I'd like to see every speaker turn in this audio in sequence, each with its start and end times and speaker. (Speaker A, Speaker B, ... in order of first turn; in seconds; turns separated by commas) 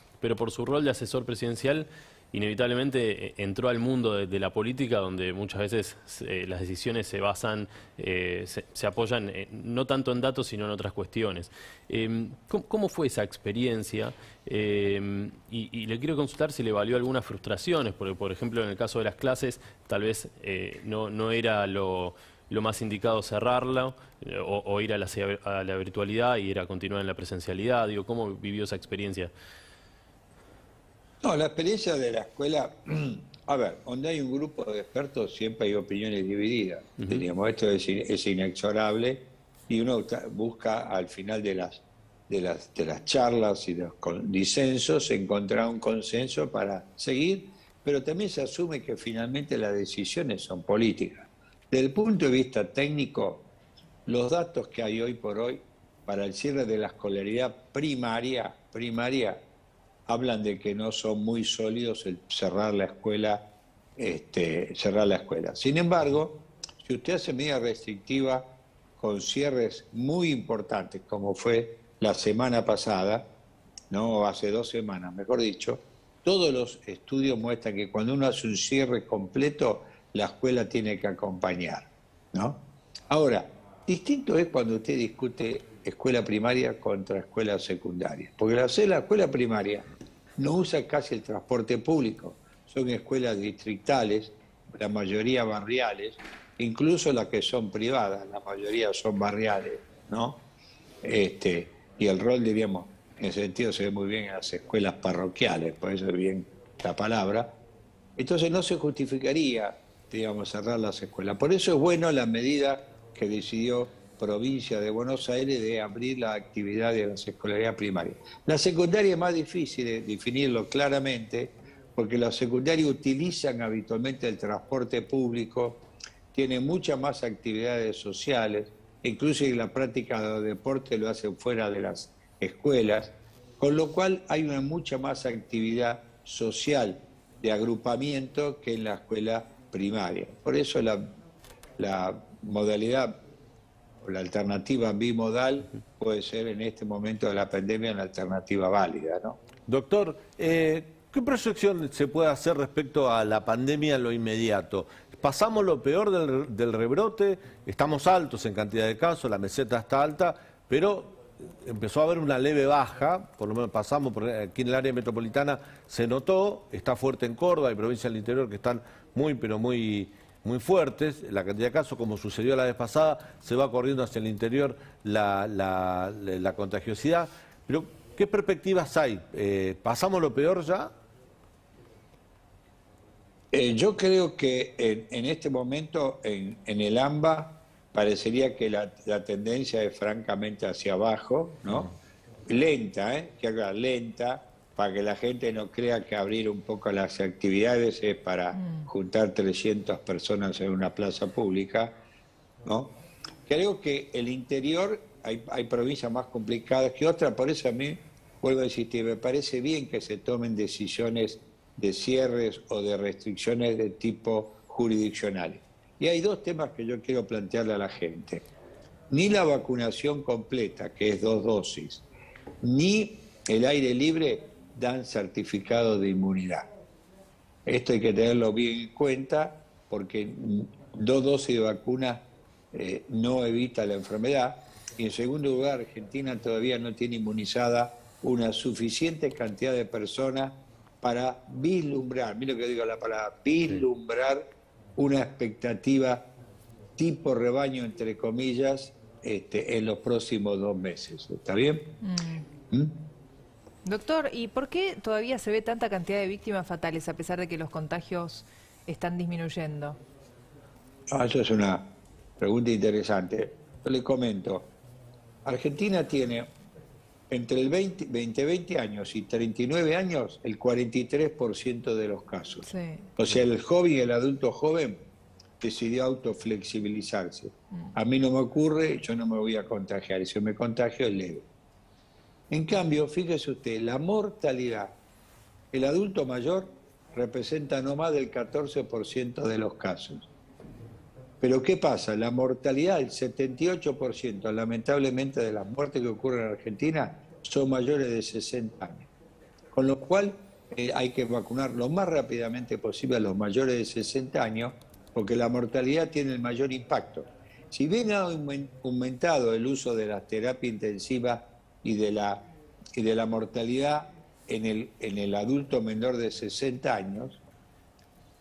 Speaker A: 0.2-29.3, Speaker B: 31.2-53.5, Speaker B: 54.1-59.4, Speaker B: 60.1-63.5, Speaker B: 64.0-73.3, Speaker B: 73.9-100.4, Speaker B: 101.0-107.5, Speaker B: 108.2-125.8, Speaker B: 126.3-141.0, Speaker B: 141.8-143.2, Speaker B: 144.0-149.4, Speaker C: 149.7-180.9, Speaker B: 183.5-191.9, Speaker B: 192.5-202.0, Speaker D: 198.6-198.9, Speaker B: 202.7-202.9, Speaker B: 203.5-218.4, Speaker B: 219.1-222.1, Speaker B: 222.6-226.7, Speaker B: 227.7-246.3, Speaker B: 247.0-251.9, Speaker D: 252.0-252.5, Speaker B: 252.7-253.0, Speaker D: 253.8-260.0, Speaker B: 261.1-264.7, Speaker B: 265.4-266.5, Speaker B: 267.3-272.7, Speaker D: 272.6-273.1, Speaker B: 273.2-275.0, Speaker B: 275.6-281.4, Speaker B: 282.5-284.9, Speaker B: 285.7-290.3, Speaker B: 291.4-299.1, Speaker B: 299.7-312.4, Speaker B: 312.9-317.4